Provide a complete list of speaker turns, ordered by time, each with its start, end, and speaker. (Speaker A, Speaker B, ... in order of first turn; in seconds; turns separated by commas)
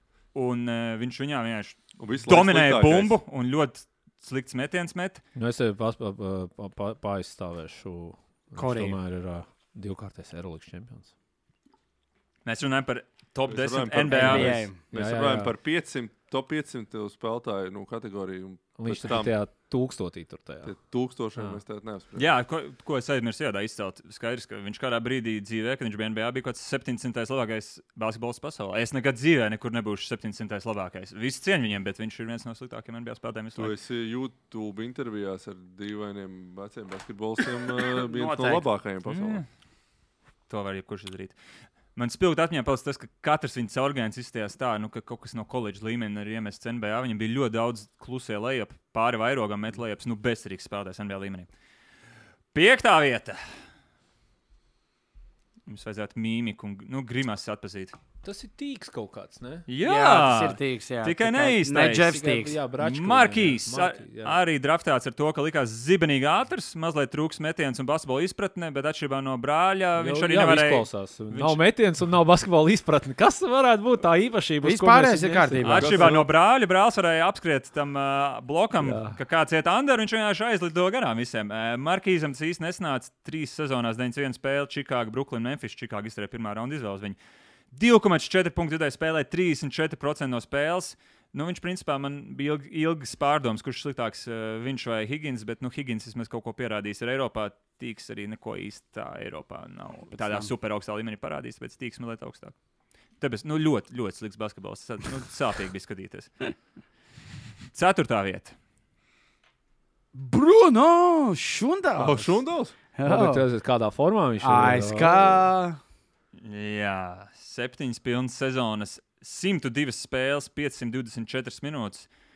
Speaker A: 0.3-5.2, Speaker B: 2.0-3.2, Speaker C: 5.3-11.1, Speaker D: 8.5-9.0, Speaker A: 12.4-14.7, Speaker B: 13.5-19.3, Speaker D: 14.1-14.8, Speaker C: 14.9-15.5, Speaker C: 18.8-20.7, Speaker B: 20.6-22.2, Speaker A: 22.1-33.7, Speaker B: 33.5-39.4, Speaker D: 37.9-38.6, Speaker A: 39.0-39.5, Speaker A: 40.5-41.4, Speaker A: 41.9-51.5, Speaker A: 52.5-53.4, Speaker A: 55.7-57.9, Speaker C: 58.2-59.6, Speaker A: 59.7-62.2, Speaker D: 59.8-62.6, Speaker C: 61.9-64.4, Speaker A: 62.8-71.6, Speaker C: 70.0-75.9, Speaker D: 74.6-76.2, Speaker A: 75.6-87.2, Speaker B: 75.8-76.3, Speaker C: 78.8-79.2, Speaker A: 87.7-102.5, Speaker D: 100.1-100.5, Speaker A: 103.2-106.5, Speaker A: 107.7-108.5, Speaker D: 110.1-113.5, Speaker B: 112.0-112.7, Speaker C: 113.0-115.5, Speaker D: 114.4-115.8, Speaker A: 116.3-122.1